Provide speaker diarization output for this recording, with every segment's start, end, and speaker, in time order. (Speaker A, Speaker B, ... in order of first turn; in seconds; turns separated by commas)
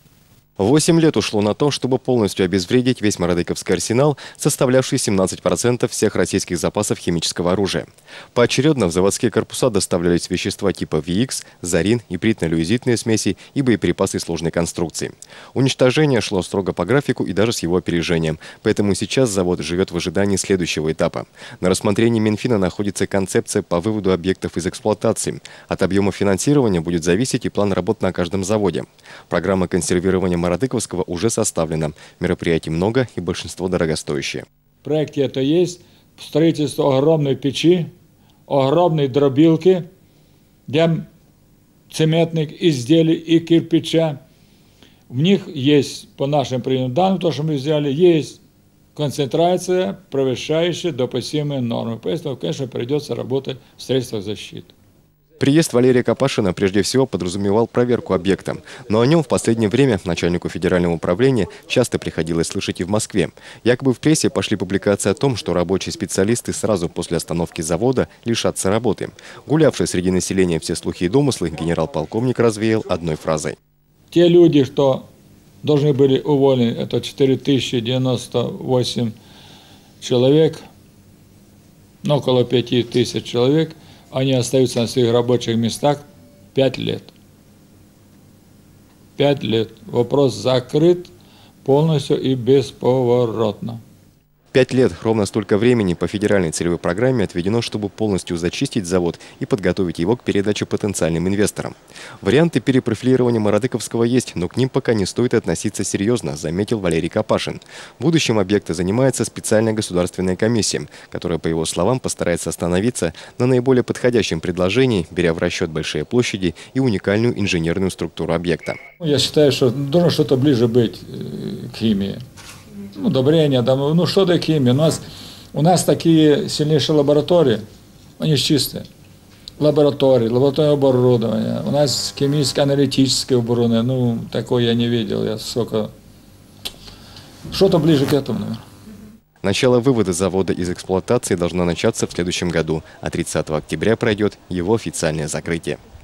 Speaker A: 0.6-34.5, Speaker B: 34.8-37.9, Speaker B: 38.5-39.9, Speaker B: 40.7-41.1, Speaker B: 41.9-44.2, Speaker B: 45.1-48.4, Speaker B: 49.0-54.7, Speaker A: 55.4-73.6, Speaker B: 74.1-75.1, Speaker B: 75.6-79.1, Speaker B: 80.0-80.6, Speaker B: 82.0-87.1, Speaker B: 89.2-91.1, Speaker B: 91.6-93.8, Speaker A: 94.5-118.8, Speaker B: 119.0-122.2, Speaker B: 122.9-125.0, Speaker B: 125.5-127.6, Speaker B: 128.2-128.9, Speaker B: 129.6-135.9, Speaker B: 137.5-138.6, Speaker A: 139.4-145.8